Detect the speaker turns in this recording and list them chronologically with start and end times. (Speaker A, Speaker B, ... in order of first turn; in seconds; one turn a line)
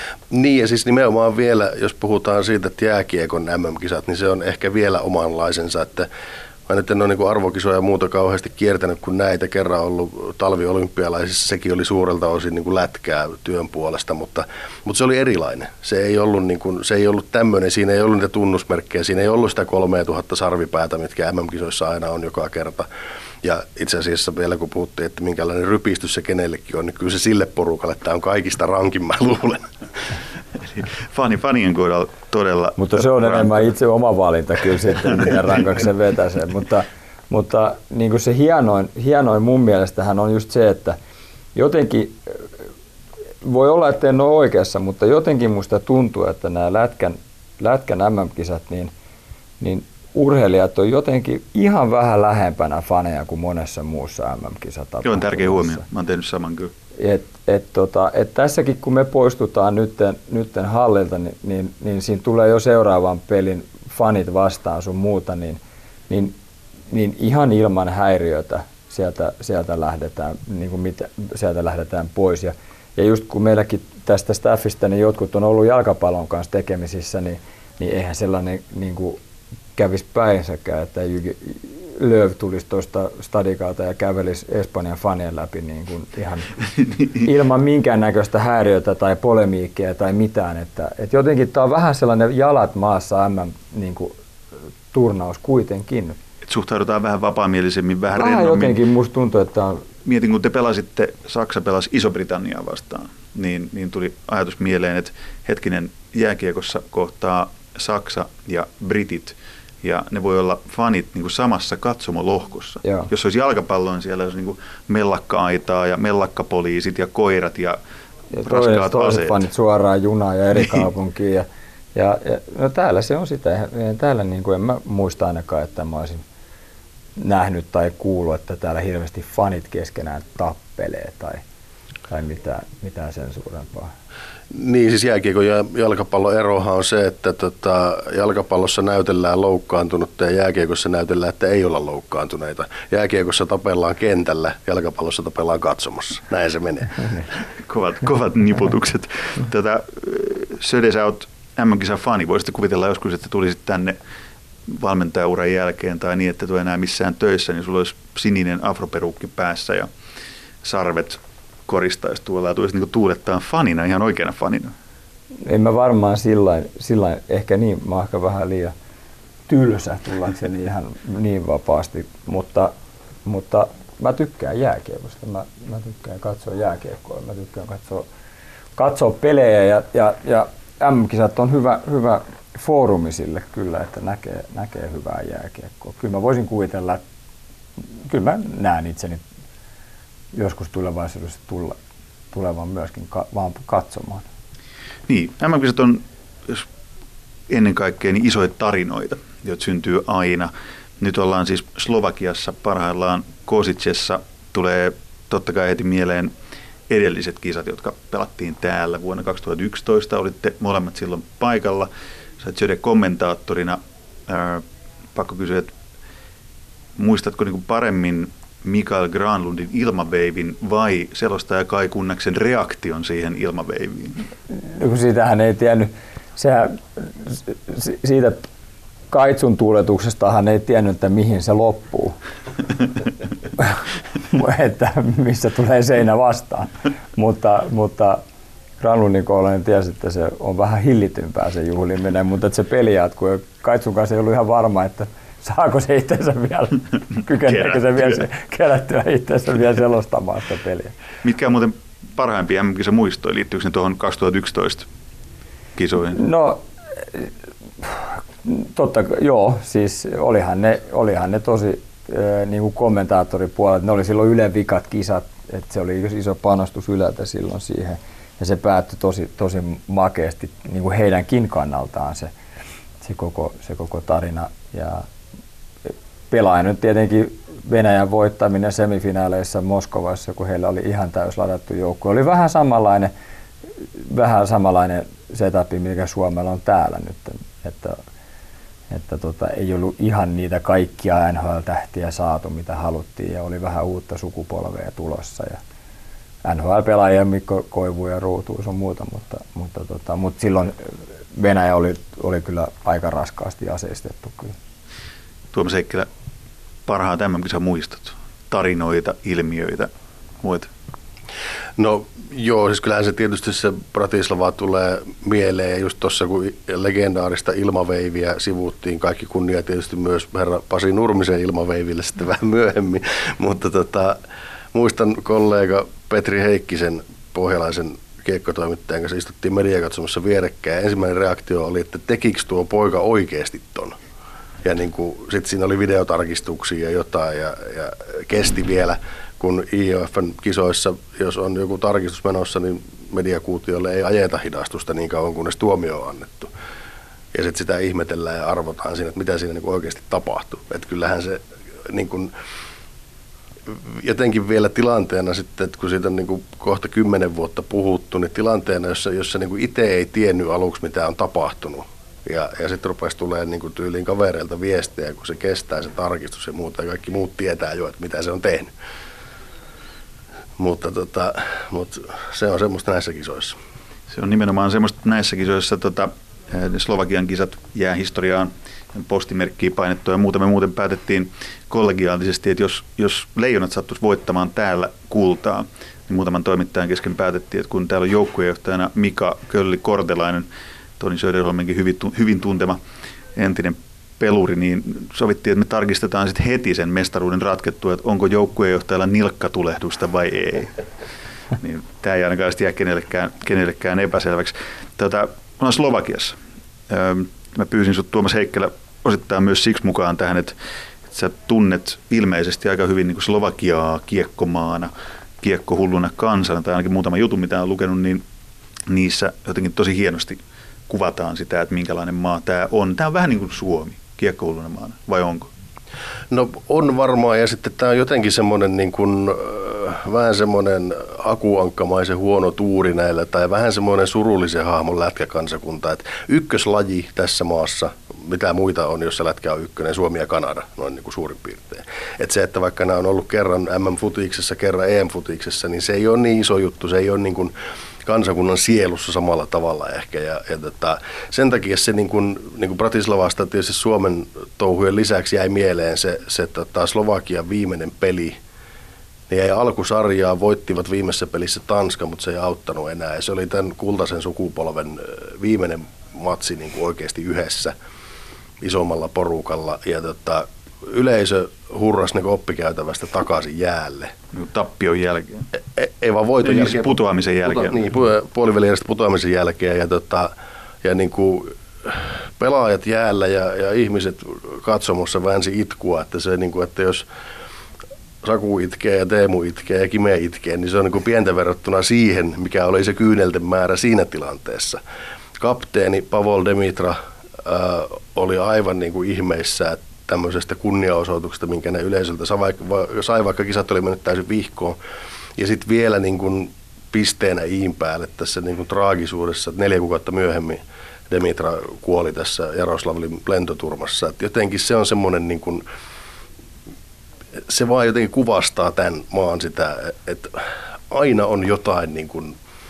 Speaker A: 0.3-6.1
Speaker A: 6.7-22.9
Speaker A: 23.4-29.7
Speaker B: 30.6-33.7
Speaker C: 32.8-41.0
Speaker C: 41.5-42.6
Speaker C: 43.4-48.9
Speaker C: 49.6-55.8
Speaker B: 55.0-56.7
Speaker C: 57.0-66.3
Speaker C: 66.9-79.2
Speaker C: 79.8-86.5
Speaker C: 87.0-94.1
Speaker C: 94.9-96.2
Speaker B: 96.5-98.8
Speaker C: 98.1-99.8
Speaker B: 100.0-117.8
Speaker C: 112.8-113.1
Speaker C: 118.3-126.2
Speaker B: 118.4-119.4
Speaker C: 127.2-131.4
Speaker C: 132.1-133.9
Speaker A: 134.5-147.2
Speaker B: 147.6-154.0
Speaker B: 154.7-159.9
Speaker B: 160.6-164.7
Speaker C: 165.4-168.7
Speaker C: 169.5-172.7
Speaker C: 173.2-178.1
Speaker C: 178.8-187.0
Speaker C: 188.0-189.2
Speaker C: 190.3-191.8
Speaker C: 192.3-194.2
Speaker B: 195.1-196.7
Speaker B: 197.5-206.3
Speaker B: 206.9-215.7
Speaker B: 216.9-224.2
Speaker C: 224.5-228.4
Speaker C: 229.1-232.2
Speaker C: 233.6-238.2
Speaker C: 238.8-250.9
Speaker B: 247.5-248.2
Speaker B: 251.2-254.9
Speaker B: 255.8-256.2
Speaker C: 256.1-272.3
Speaker C: 273.0-275.1
Speaker C: 275.8-283.1
Speaker C: 283.7-288.0
Speaker C: 288.9-295.6
Speaker C: 296.4-304.5
Speaker B: 305.5-306.1
Speaker B: 306.9-309.9
Speaker B: 310.4-310.7
Speaker A: 311.8-324.2
Speaker A: 324.7-334.0
Speaker A: 334.6-346.5
Speaker A: 347.3-352.3
Speaker A: 353.7-368.7
Speaker A: 370.6-373.6
Speaker B: 374.1-390.5
Speaker B: 391.0-392.8
Speaker B: 393.4-400.7
Speaker B: 401.6-406.4
Speaker B: 406.9-410.5
Speaker B: 411.1-418.2
Speaker B: 418.9-425.5
Speaker A: 426.3-447.5
Speaker A: 448.0-458.4
Speaker A: 459.3-467.7
Speaker A: 468.6-474.1
Speaker B: 474.3-475.5
Speaker A: 475.7-480.3
Speaker B: 476.4-477.8
Speaker A: 480.8-487.0
Speaker A: 488.2-494.8
Speaker A: 495.4-504.8
Speaker A: 505.4-515.6
Speaker A: 517.5-522.4